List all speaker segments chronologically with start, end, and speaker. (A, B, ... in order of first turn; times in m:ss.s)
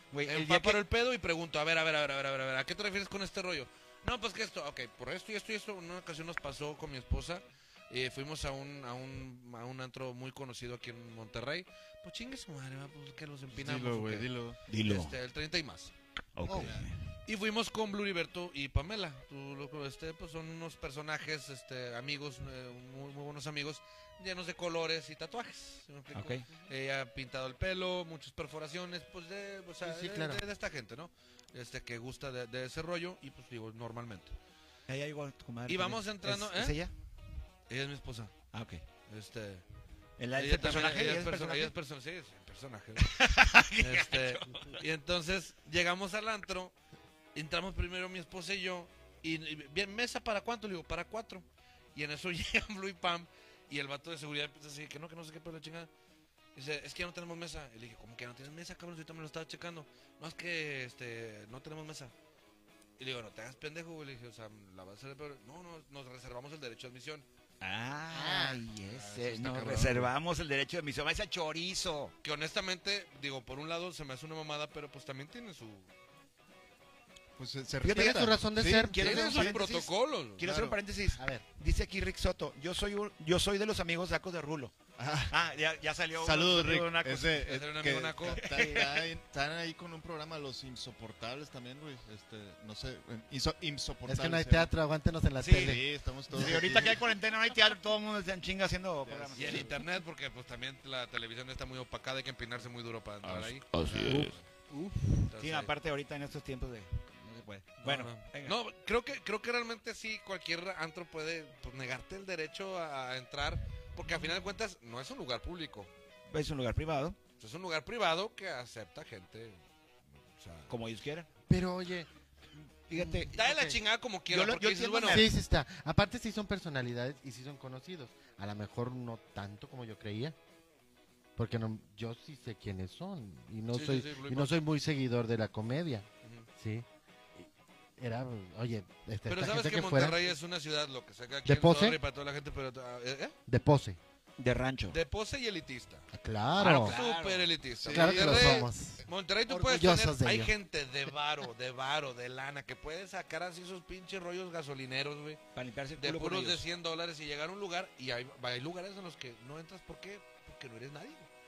0:00.1-0:00.8 A
0:00.2-0:14.3 B
0:13.5-0:14.6 C
0:14.7-0:15.1 A
0:14.8-0:15.9 B
0:16.4-0:17.1 A
0:16.4-0:16.8 D
0:16.6-0:16.8 C
0:17.2-0:34.3 B
0:26.1-0:26.4 A
0:29.8-0:30.4 D
0:34.9-0:36.9 A
0:35.7-0:36.8 B
0:37.7-0:38.4 B
0:38.5-0:38.8 A
0:39.1-0:39.6 B
0:40.2-0:41.7 A
0:40.4-0:43.2 B
0:43.0-0:44.8 A
0:43.7-0:46.7 B
0:47.3-0:55.9 B
0:56.5-1:02.1 B
1:03.0-1:07.2 B
1:07.6-1:12.1 A
1:08.1-1:08.6 D
1:08.9-1:10.1 C
1:12.2-1:15.9 B
1:17.4-1:18.9 C
1:17.8-1:24.7 A
1:17.9-1:19.5 D
1:18.9-1:20.4 B
1:20.4-1:20.8 C
1:21.2-1:21.4 D
1:25.0-1:25.3 C
1:25.3-1:27.5 A
1:26.2-1:34.7 C
1:27.4-1:28.4 B
1:28.3-1:29.0 A
1:34.0-1:35.8 D
1:35.4-1:35.8 A
1:35.5-1:37.1 C
1:36.3-1:39.7 A
1:39.0-1:39.7 C
1:39.4-1:44.4 B
1:43.2-1:44.3 C
1:43.8-1:44.4 A
1:43.9-1:45.2 D
1:45.3-1:48.6 A
1:45.3-1:45.7 B
1:47.8-1:55.9 B
1:56.3-1:57.2 A
1:57.4-1:59.6 B
2:00.3-2:00.7 B
2:00.7-2:01.3 A
2:01.5-2:02.1 D
2:02.9-2:03.4 A
2:02.9-2:03.8 D
2:03.3-2:05.2 B
2:04.3-2:05.3 A
2:05.1-2:10.4 D
2:11.4-2:16.8 D
2:13.7-2:14.6 B
2:17.4-2:20.2 D
2:19.3-2:23.3 B
2:21.4-2:22.0 D
2:23.5-2:24.0 D
2:24.4-2:25.0 A
2:24.9-2:26.0 B
2:26.1-2:27.0 D
2:26.6-2:27.5 A
2:26.6-2:35.4 B
2:27.8-2:28.7 C
2:27.9-2:30.5 D
2:35.5-2:36.6 A
2:36.0-2:41.3 B